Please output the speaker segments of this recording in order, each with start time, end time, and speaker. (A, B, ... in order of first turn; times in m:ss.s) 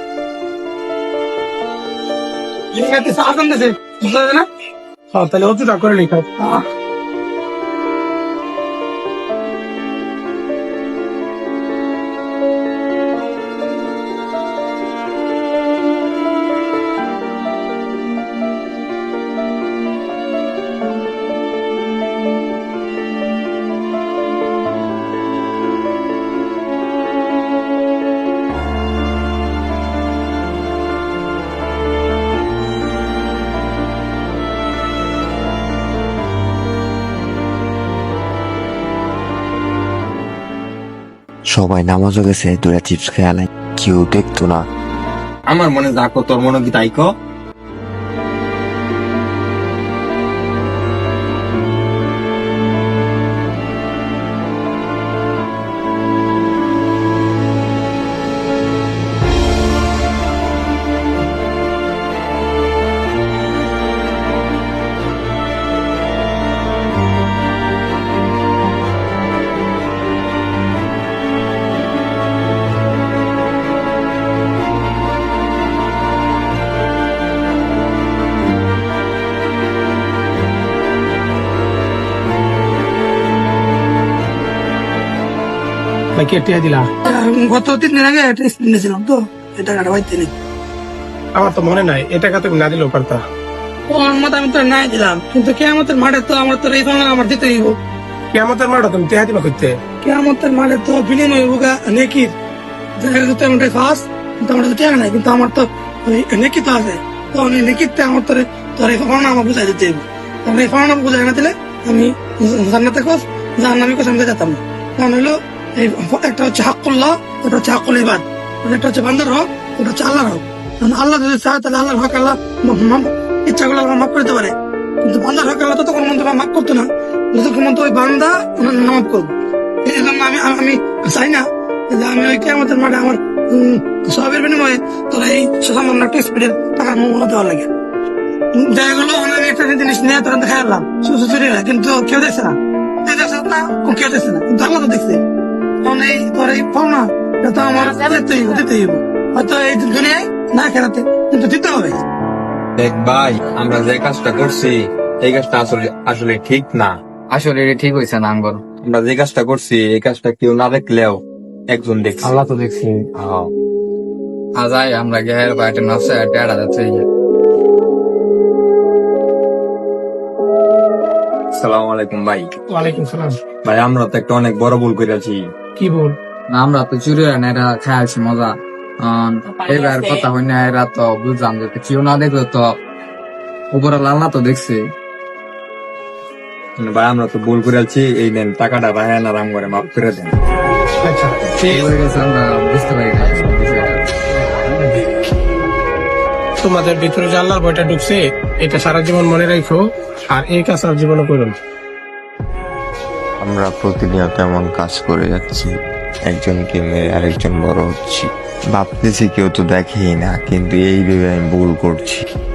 0:02.7-0:04.4 A
0:05.1-0:06.3 B
0:06.4-0:06.6 A
0:41.5-0:44.6 C
0:45.5-0:47.1 D
1:26.2-1:26.9 B
1:27.0-1:30.3 A
1:31.3-1:33.2 B
1:33.9-1:37.8 A
1:38.3-1:39.7 B
1:40.0-1:42.3 A
1:43.0-2:09.3 A
2:09.8-2:17.7 A
2:18.5-2:25.2 A
2:25.8-2:32.0 A
2:32.8-2:37.0 D
2:37.3-2:38.6 E
2:38.8-2:41.2 D
2:41.7-2:42.5 D
2:42.2-2:43.0 E
2:43.1-2:43.5 D
2:44.6-2:47.0 E
2:51.5-2:52.5 D
2:52.7-2:53.3 B
2:53.6-2:55.4 D
2:55.8-2:56.1 B
2:56.5-3:02.7 E
3:03.7-3:04.8 E
3:06.8-3:10.3 D
3:11.0-3:11.4 B
3:11.6-3:14.0 E
3:16.6-3:21.6 B
3:23.4-3:25.7 C
3:26.3-3:32.2 C